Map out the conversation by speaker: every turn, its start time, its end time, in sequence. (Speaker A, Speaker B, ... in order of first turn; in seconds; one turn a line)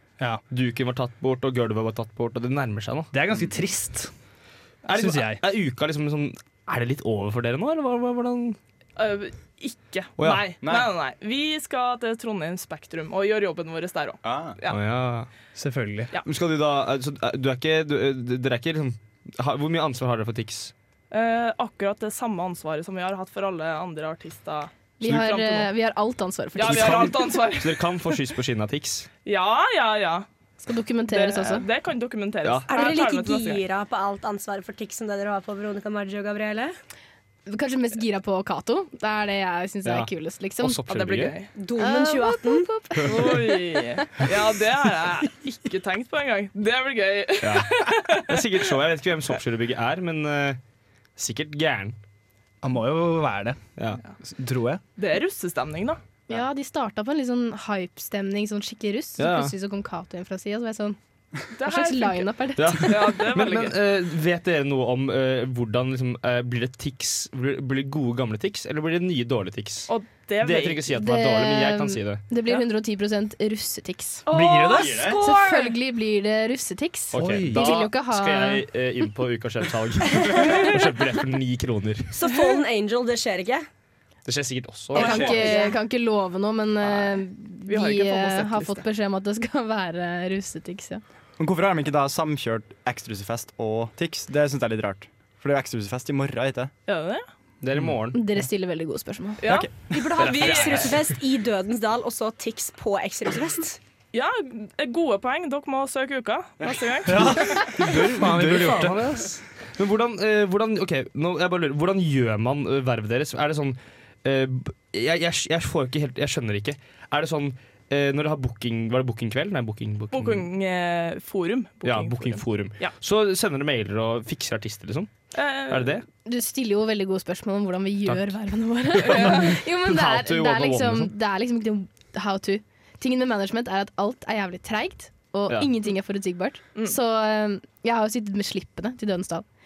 Speaker A: 0.5-3.1
Speaker B: 3.1-4.1
Speaker A: 4.8-8.6
Speaker B: 4.9-5.4
Speaker C: 8.9-14.8
Speaker A: 10.2-10.5
Speaker D: 14.2-14.6
Speaker A: 14.7-15.3
Speaker B: 15.5-16.1
Speaker A: 16.2-20.7
Speaker C: 21.1-25.7
Speaker E: 25.0-27.2
Speaker C: 26.5-27.9
Speaker A: 26.6-29.1
Speaker C: 29.2-30.3
Speaker E: 30.6-31.7
Speaker C: 31.1-33.6
Speaker A: 32.4-32.7
Speaker F: 32.7-36.7
Speaker E: 37.5-40.8
Speaker A: 39.8-41.4
Speaker C: 40.8-41.5
Speaker F: 41.5-42.7
Speaker E: 41.8-44.0
Speaker C: 43.0-48.4
Speaker A: 47.4-50.6
Speaker A: 51.1-52.0
Speaker B: 52.6-53.6
Speaker B: 54.2-54.8
Speaker C: 55.0-56.0
Speaker E: 56.3-61.0
Speaker A: 59.2-59.5
Speaker C: 61.5-63.8
Speaker E: 61.6-63.2
Speaker A: 62.5-72.3
Speaker C: 69.9-70.9
Speaker E: 70.9-74.3
Speaker C: 72.4-72.7
Speaker B: 74.3-75.2
Speaker E: 75.1-78.6
Speaker A: 77.1-82.2
Speaker B: 77.1-77.7
Speaker F: 82.1-83.6
Speaker A: 84.2-85.5
Speaker C: 85.0-85.3
Speaker E: 85.0-91.0
Speaker F: 85.0-85.7
Speaker C: 86.8-88.9
Speaker D: 91.4-96.7
Speaker C: 96.9-97.3
Speaker A: 97.6-98.2
Speaker E: 98.1-99.6
Speaker C: 99.4-100.6
Speaker F: 99.9-103.8
Speaker A: 100.1-101.0
Speaker C: 104.1-107.7
Speaker B: 107.1-109.1
Speaker A: 107.8-120.5
Speaker C: 120.1-123.0
Speaker A: 121.8-125.1
Speaker C: 125.3-126.0
Speaker A: 125.7-126.0
Speaker E: 126.2-139.4
Speaker A: 128.1-128.3
Speaker A: 128.9-131.1
Speaker C: 129.1-129.5